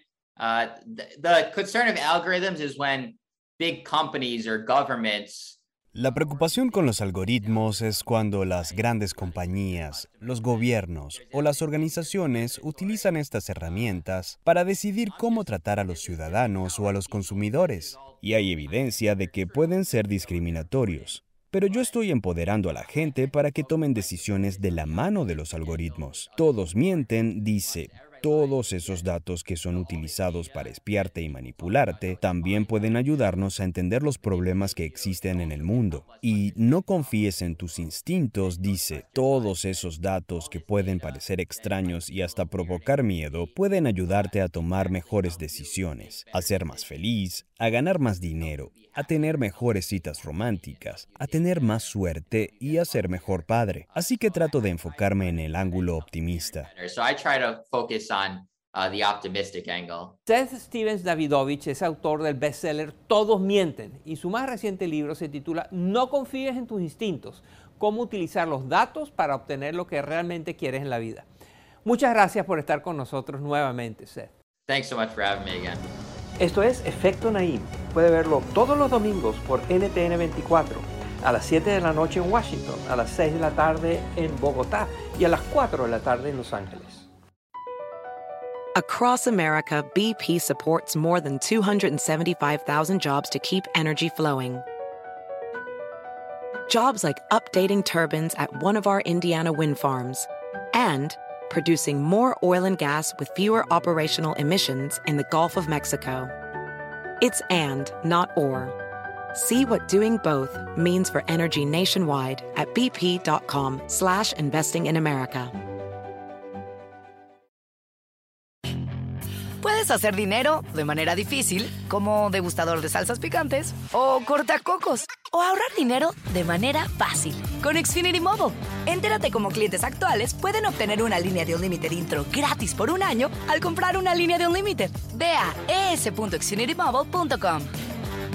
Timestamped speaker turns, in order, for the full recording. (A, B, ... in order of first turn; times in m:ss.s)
0:00.4-0:14.0 A
0:05.9-0:56.7 B
0:15.0-0:33.5 A
0:34.1-0:47.2 A
0:47.9-1:00.2 A
1:00.2-1:11.3 C
1:11.8-1:14.3 C
1:14.7-1:15.9 A
1:16.4-1:27.0 C
1:28.8-1:34.6 D
1:36.7-1:46.3 D
1:47.2-1:48.8 D
1:49.3-1:55.5 D
1:59.6-2:17.7 E